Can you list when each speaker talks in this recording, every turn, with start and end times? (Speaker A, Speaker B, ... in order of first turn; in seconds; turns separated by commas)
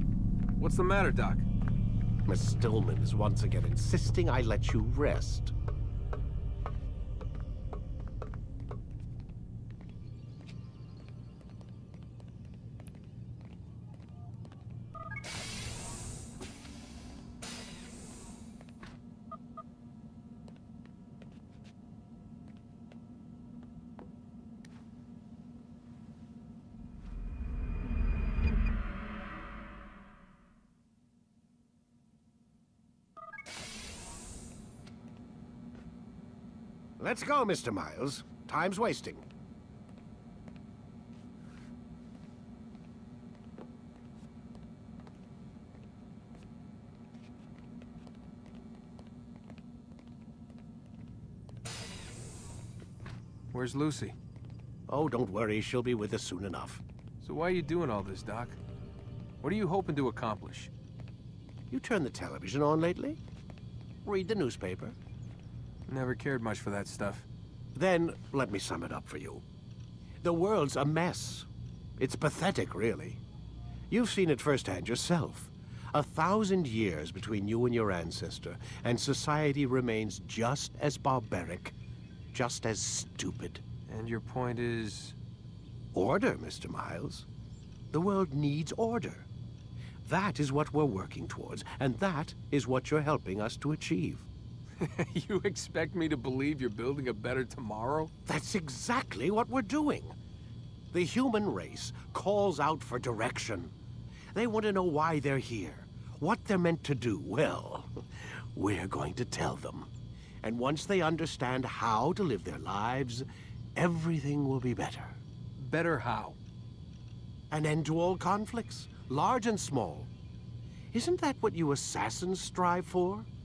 Speaker A: 0.6-1.5, Speaker B: 2.3-5.5, Speaker B: 37.0-39.2, Speaker A: 53.5-54.2, Speaker B: 54.9-56.8, Speaker A: 57.2-58.6, Speaker A: 59.4-60.7, Speaker B: 61.7-63.2, Speaker B: 64.0-65.0, Speaker A: 65.9-67.3, Speaker B: 67.8-69.4, Speaker B: 70.2-73.2, Speaker B: 73.9-81.8, Speaker B: 82.3-83.6, Speaker A: 83.9-85.2, Speaker B: 85.9-87.3, Speaker B: 87.9-89.3, Speaker B: 90.0-94.3, Speaker A: 94.8-98.1, Speaker B: 98.3-100.2, Speaker B: 100.9-103.7, Speaker B: 104.3-108.0, Speaker B: 108.5-109.9, Speaker B: 110.4-115.2, Speaker A: 115.6-116.4, Speaker B: 117.5-120.1, Speaker B: 120.9-123.3